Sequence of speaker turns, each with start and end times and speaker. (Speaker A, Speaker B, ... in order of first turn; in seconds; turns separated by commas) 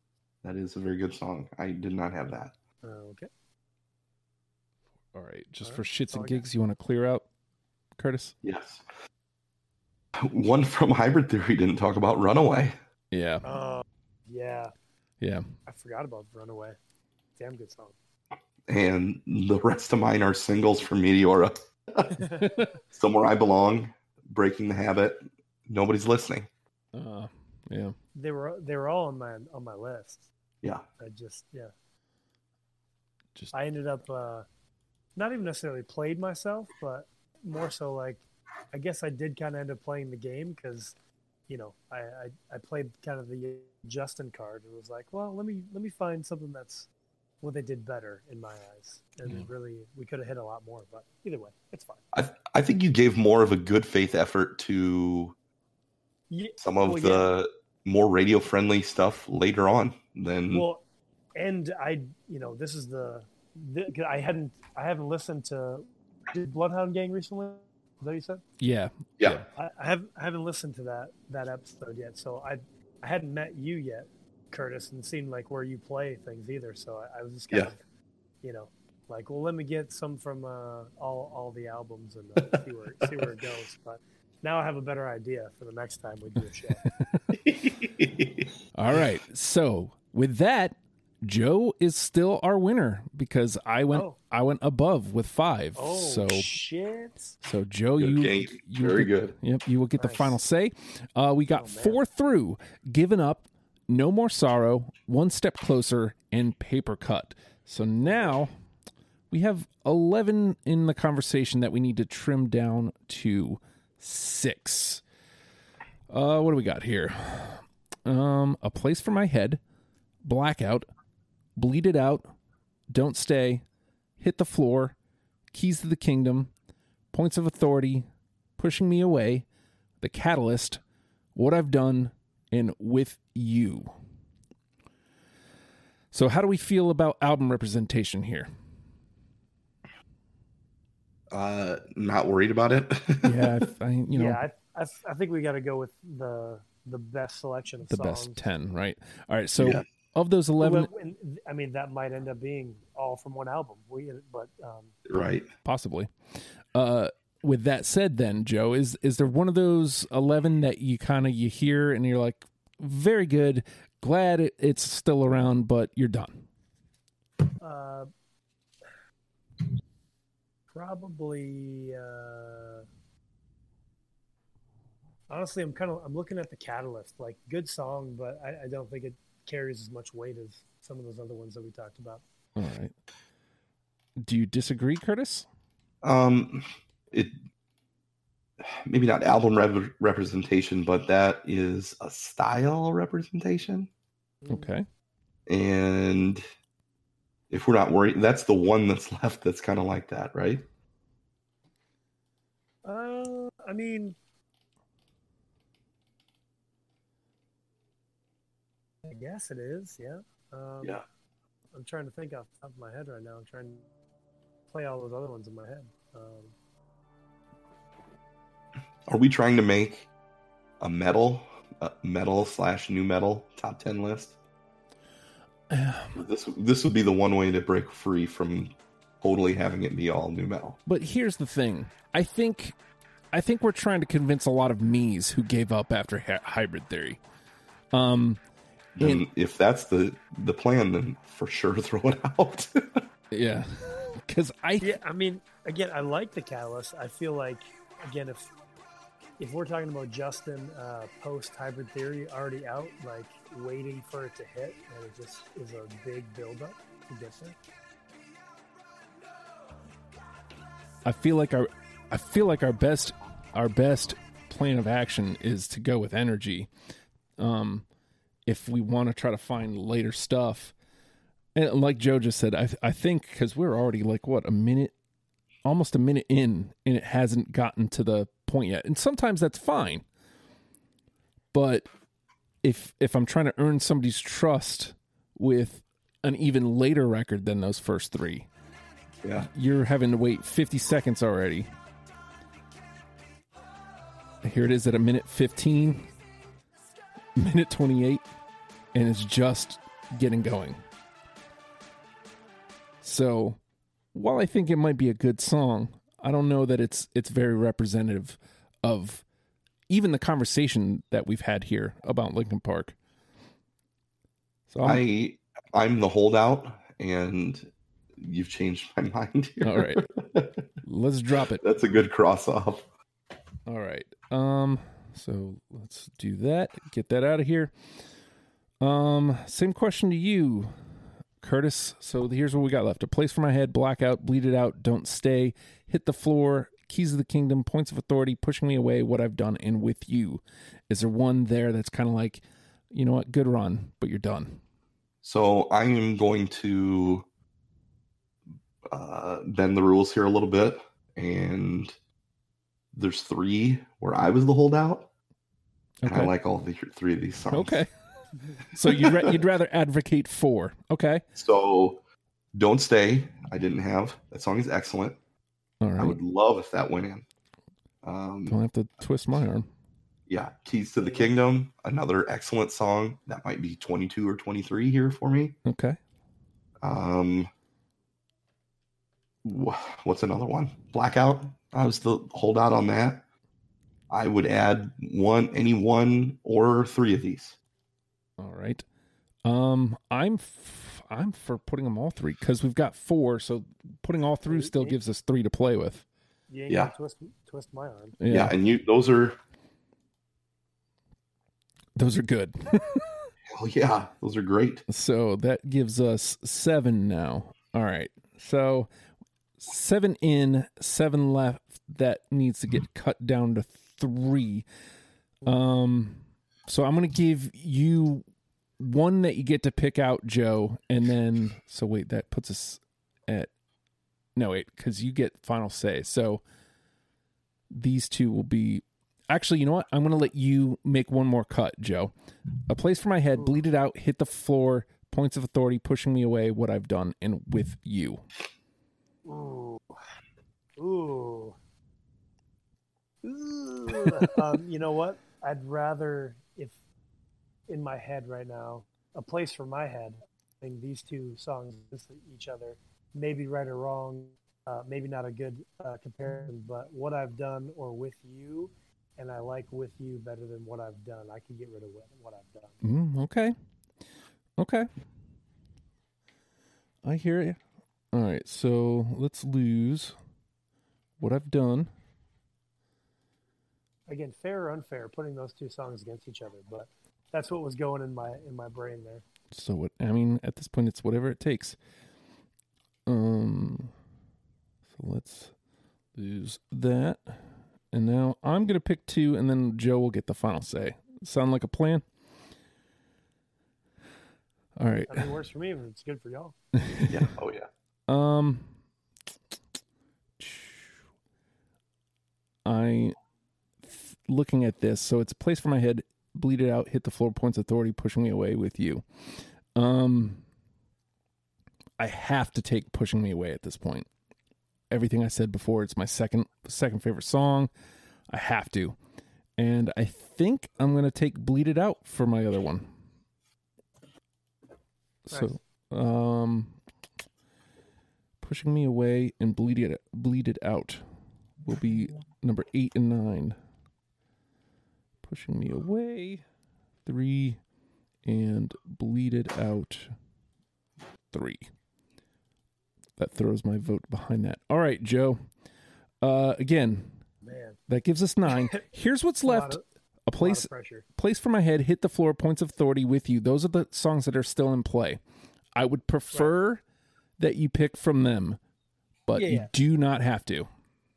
Speaker A: 0.4-2.5, Speaker B: 2.8-3.3, Speaker C: 5.1-7.2, Speaker B: 5.6-6.5, Speaker C: 8.0-8.3, Speaker A: 8.4-8.8, Speaker A: 10.2-12.8, Speaker C: 13.1-13.4, Speaker B: 13.4-14.7, Speaker C: 15.2-15.5, Speaker B: 15.7-16.8, Speaker B: 17.4-18.0, Speaker A: 18.7-22.2, Speaker B: 22.1-22.8, Speaker C: 22.4-22.7, Speaker A: 22.9-26.5, Speaker C: 26.9-27.9, Speaker B: 28.1-30.3, Speaker B: 31.0-31.7, Speaker B: 33.5-34.5, Speaker B: 35.2-41.0, Speaker B: 41.5-46.9, Speaker B: 47.4-52.0, Speaker A: 52.1-55.4, Speaker B: 56.3-57.3, Speaker A: 56.6-60.7, Speaker B: 60.5-60.8, Speaker B: 61.4-68.4, Speaker C: 68.6-69.5, Speaker B: 69.5-77.8, Speaker B: 78.4-86.8, Speaker C: 86.8-87.4, Speaker A: 87.4-88.5, Speaker C: 88.7-96.5, Speaker B: 95.8-97.3, Speaker C: 97.4-108.5, Speaker A: 98.0-99.4, Speaker B: 100.0-100.4, Speaker B: 101.5-102.0, Speaker C: 109.3-115.0, Speaker C: 116.1-119.6, Speaker C: 120.2-120.9, Speaker C: 121.6-122.3, Speaker C: 122.9-123.6, Speaker C: 124.2-125.0, Speaker C: 125.5-126.5, Speaker C: 127.1-128.1, Speaker C: 128.6-129.4, Speaker C: 130.0-130.8, Speaker C: 131.3-133.9, Speaker C: 136.1-138.5, Speaker A: 141.3-143.7, Speaker C: 143.2-144.4, Speaker B: 144.1-148.4, Speaker C: 147.9-150.9, Speaker A: 149.6-149.8, Speaker B: 150.6-155.0, Speaker A: 155.1-155.5, Speaker C: 155.1-166.4, Speaker B: 167.6-168.1, Speaker B: 170.7-172.9, Speaker B: 175.3-182.2, Speaker C: 182.6-182.9, Speaker C: 184.2-185.5, Speaker A: 186.0-187.4, Speaker A: 188.6-193.9, Speaker C: 194.5-194.8, Speaker A: 195.5-196.4, Speaker A: 197.5-200.7, Speaker B: 202.8-204.2, Speaker B: 209.0-211.0, Speaker B: 211.7-213.9, Speaker B: 214.7-216.5, Speaker A: 219.1-220.1, Speaker A: 220.8-224.3, Speaker C: 225.7-226.2, Speaker A: 226.2-230.8, Speaker C: 230.9-232.8, Speaker C: 233.3-237.2, Speaker C: 237.9-238.4, Speaker A: 239.0-243.1, Speaker C: 243.3-244.9, Speaker B: 244.8-248.5, Speaker B: 249.4-257.6, Speaker C: 261.1-266.7, Speaker C: 267.4-267.9, Speaker C: 268.5-270.7, Speaker C: 271.6-274.9, Speaker C: 275.6-280.1, Speaker C: 281.5-281.9, Speaker C: 282.6-288.5, Speaker A: 289.2-289.5, Speaker C: 289.4-291.7, Speaker C: 294.4-296.1, Speaker C: 297.4-298.2, Speaker C: 298.9-300.8, Speaker C: 303.0-303.6, Speaker C: 304.1-309.2, Speaker C: 309.9-312.9, Speaker C: 314.7-315.0, Speaker A: 314.8-320.6, Speaker C: 319.6-320.1, Speaker C: 320.8-321.6, Speaker A: 321.6-322.9, Speaker C: 323.7-327.7, Speaker C: 328.8-330.7, Speaker C: 331.4-344.6, Speaker A: 345.2-347.3, Speaker A: 348.9-351.9, Speaker A: 352.9-355.1, Speaker C: 356.0-356.3, Speaker A: 356.1-357.8, Speaker C: 357.5-357.9, Speaker C: 358.7-361.2, Speaker A: 358.8-359.4, Speaker A: 361.4-362.0, Speaker A: 362.5-365.2, Speaker C: 365.8-366.2, Speaker A: 366.0-367.2, Speaker A: 368.0-368.6, Speaker C: 368.5-369.7, Speaker A: 370.3-375.6, Speaker B: 371.0-371.3, Speaker C: 375.6-376.0, Speaker A: 376.8-377.5, Speaker A: 379.4-383.2, Speaker A: 384.1-387.6, Speaker C: 388.4-388.8, Speaker C: 389.4-396.1, Speaker B: 394.4-395.0, Speaker B: 396.5-398.2, Speaker A: 396.7-396.9, Speaker C: 398.2-398.6, Speaker A: 398.3-399.4, Speaker C: 402.0-403.3, Speaker A: 403.5-404.8, Speaker C: 404.9-408.9, Speaker C: 409.6-414.7, Speaker C: 415.4-418.2, Speaker C: 418.8-423.5, Speaker C: 424.4-426.4, Speaker C: 427.7-432.1, Speaker C: 432.7-438.2, Speaker B: 439.2-440.0, Speaker B: 440.8-441.6, Speaker B: 443.2-446.8, Speaker B: 447.7-462.8, Speaker C: 462.8-463.6, Speaker C: 464.6-464.9, Speaker C: 467.0-467.6, Speaker C: 468.1-470.2, Speaker C: 471.2-471.9, Speaker B: 474.1-479.2, Speaker C: 479.5-481.8, Speaker C: 483.1-483.9, Speaker C: 484.9-485.5, Speaker C: 486.1-492.0, Speaker C: 494.8-495.3, Speaker B: 495.1-496.6, Speaker C: 496.8-497.2, Speaker A: 497.1-497.7, Speaker C: 498.1-498.7, Speaker C: 500.4-501.0, Speaker C: 502.6-503.2, Speaker C: 503.8-510.4, Speaker C: 512.0-514.1, Speaker C: 514.9-517.7, Speaker C: 518.3-519.0, Speaker C: 519.6-522.9, Speaker C: 525.3-526.8, Speaker C: 528.4-531.0, Speaker C: 531.6-533.6, Speaker C: 535.2-536.4, Speaker C: 537.1-537.6, Speaker C: 538.2-540.1, Speaker C: 541.3-541.7, Speaker C: 543.2-545.4, Speaker C: 546.2-547.2, Speaker B: 547.4-547.8, Speaker C: 547.9-555.2, Speaker B: 548.5-548.8, Speaker B: 549.5-549.8, Speaker B: 550.4-551.0, Speaker C: 555.7-556.8, Speaker C: 557.4-558.6, Speaker C: 559.3-560.7, Speaker B: 559.4-559.7